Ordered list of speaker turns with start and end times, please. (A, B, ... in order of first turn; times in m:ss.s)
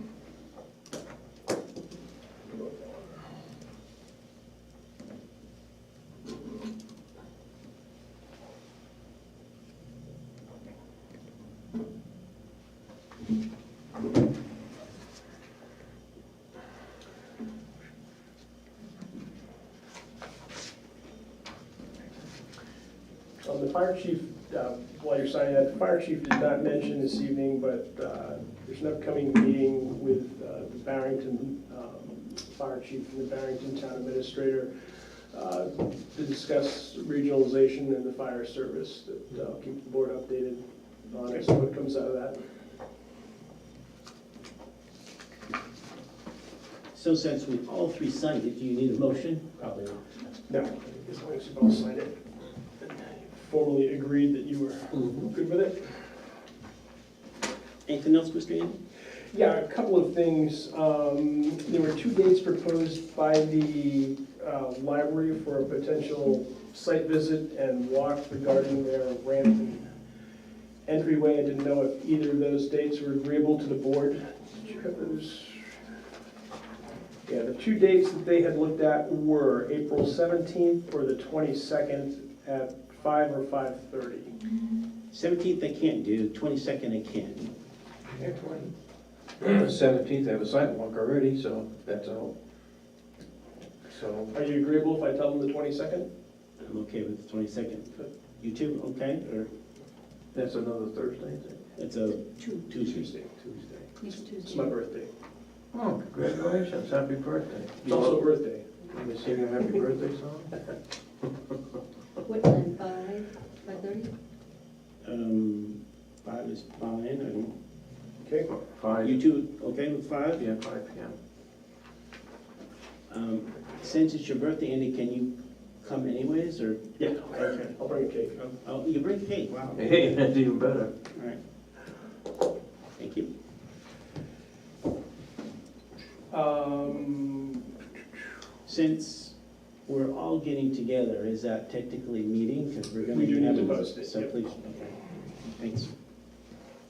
0:02.5-0:03.2 A
0:23.4-0:42.4 A
0:46.9-0:50.0 B
0:50.5-0:52.2 A
0:52.8-0:56.0 A
0:54.9-0:55.2 C
0:57.8-0:58.8 B
0:59.3-1:09.9 A
1:10.8-1:15.8 A
1:17.2-1:24.3 A
1:25.1-1:27.5 B
1:28.1-1:28.7 C
1:29.4-1:32.3 C
1:33.8-1:34.3 C
1:34.3-1:36.1 A
1:36.6-1:39.5 B
1:40.3-1:41.6 C
1:41.8-1:43.1 B
1:42.7-1:45.1 A
1:44.0-1:44.7 D
1:45.7-1:48.2 C
1:47.8-1:48.7 A
1:48.9-1:50.5 C
1:52.2-1:54.1 D
1:55.0-1:57.5 B
1:58.2-1:58.5 A
1:58.5-1:59.2 C
1:59.0-2:00.4 B
2:00.4-2:01.2 C
2:03.1-2:07.8 B
2:07.2-2:08.3 A
2:08.3-2:10.2 B
2:09.8-2:10.9 C
2:11.1-2:11.4 B
2:13.0-2:13.3 B
2:16.3-2:17.8 A
2:18.6-2:19.3 B
2:19.8-2:25.9 B
2:23.1-2:24.4 A